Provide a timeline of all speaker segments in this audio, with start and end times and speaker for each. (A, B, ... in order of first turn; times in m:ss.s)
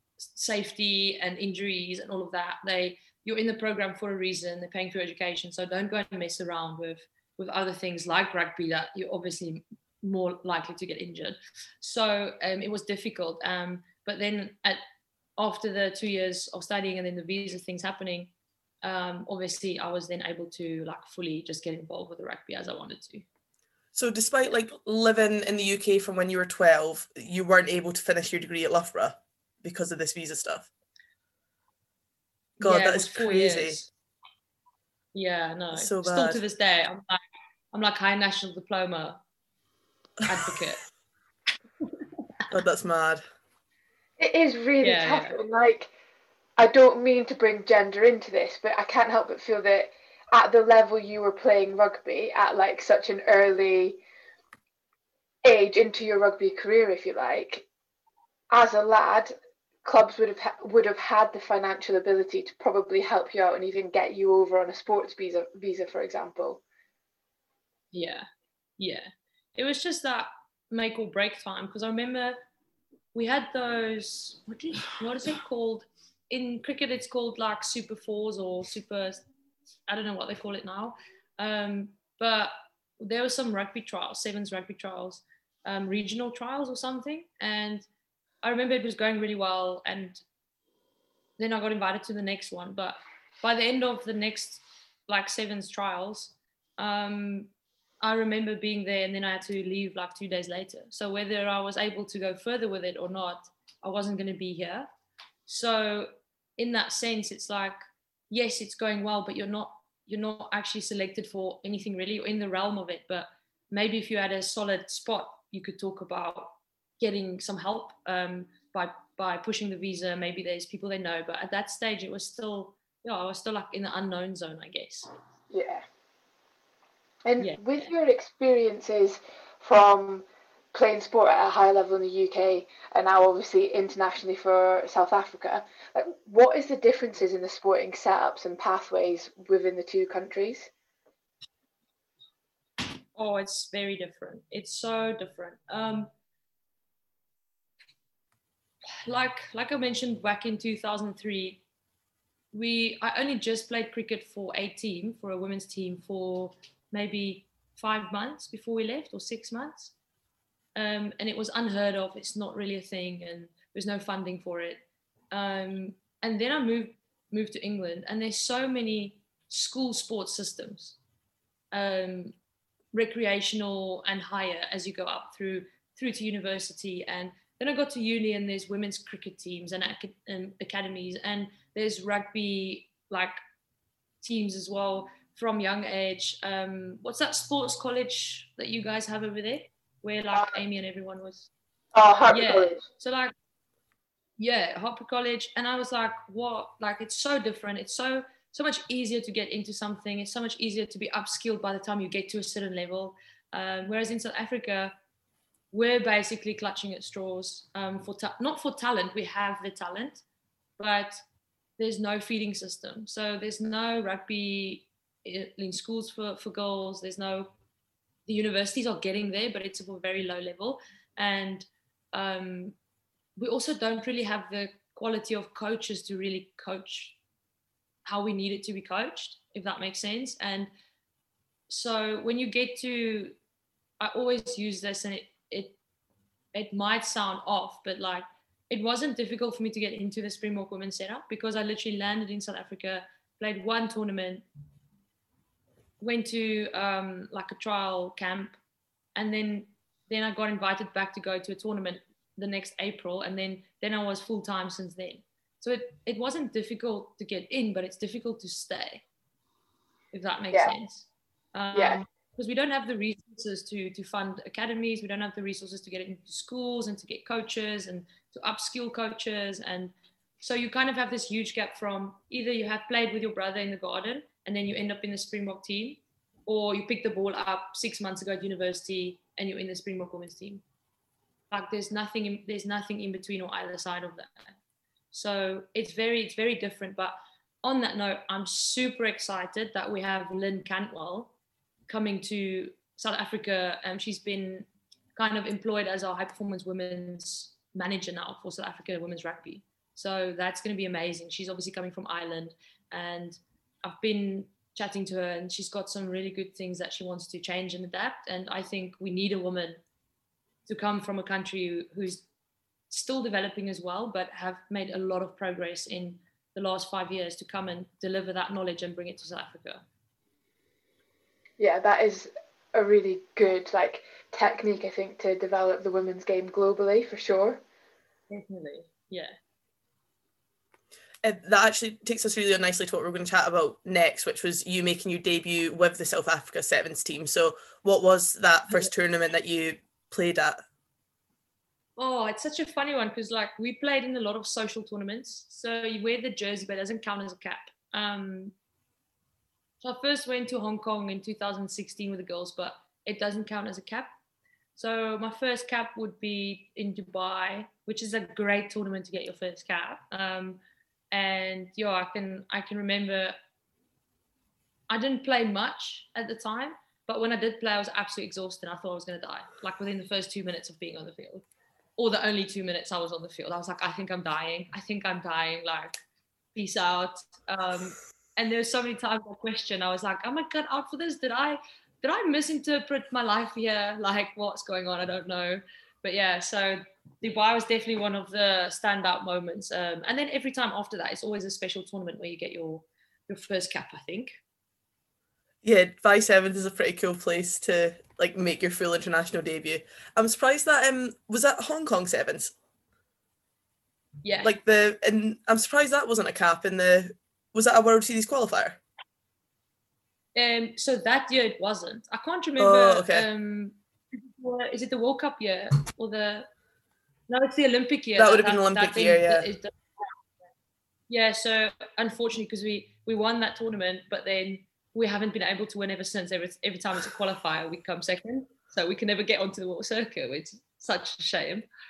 0:00.2-0:14.8 A
0:15.4-0:18.3 A
0:18.8-0:23.2 A
0:23.9-0:30.7 B
0:32.6-0:33.8 B
0:32.6-0:33.9 A
0:35.1-0:37.2 A
0:35.7-0:36.4 B
0:37.7-0:39.2 A
0:40.2-0:40.8 A
0:42.5-0:43.2 B
0:44.2-0:45.9 C
0:44.8-0:45.4 A
0:46.6-0:54.0 C
0:55.4-0:57.6 C
0:58.5-1:06.6 C
1:07.9-1:08.2 A
1:08.8-1:12.4 A
1:13.1-1:19.2 A
1:19.9-1:27.9 A
1:28.4-1:30.2 A
1:31.4-1:37.5 A
1:38.0-1:44.9 A
1:45.5-1:47.8 A
1:48.3-2:05.1 A
2:05.5-2:05.8 C
2:07.2-2:20.7 C
2:07.4-2:07.9 A
2:23.2-2:26.1 A
2:29.0-2:31.6 A
2:32.5-2:39.9 A
2:40.8-2:51.0 A
2:51.7-2:52.3 A
2:52.9-3:03.4 A
3:04.2-3:11.5 A
3:11.9-3:12.8 C
3:12.3-3:13.3 A
3:14.4-3:24.9 A
3:25.7-3:30.2 A
3:30.8-3:31.2 A
3:31.8-3:37.5 A
3:38.2-3:42.7 A
3:43.4-3:47.2 A
3:48.0-3:50.7 A
3:51.7-3:53.3 A
3:54.0-3:55.8 A
3:56.5-4:04.4 A
4:06.0-4:08.6 A
4:09.2-4:19.0 A
4:20.1-4:40.6 A
4:21.7-4:22.0 C
4:41.5-4:44.5 A
4:45.1-4:51.3 A
4:51.9-5:09.8 A
5:10.7-5:12.2 A
5:12.9-5:19.8 A
5:21.6-5:27.6 C
5:28.3-5:29.3 A
5:31.2-5:40.6 B
5:42.0-5:48.5 A
5:49.8-5:54.1 A
5:54.8-6:00.6 A
6:01.1-6:03.4 A
6:04.9-6:11.4 A
6:12.0-6:16.0 A
6:16.5-6:34.4 A
6:35.6-6:42.5 B
6:44.2-6:44.5 A
6:44.4-6:48.8 B
6:50.3-6:56.5 A
6:52.6-6:53.3 B
6:57.3-6:59.7 A
6:58.2-6:59.4 B
7:01.1-7:11.7 A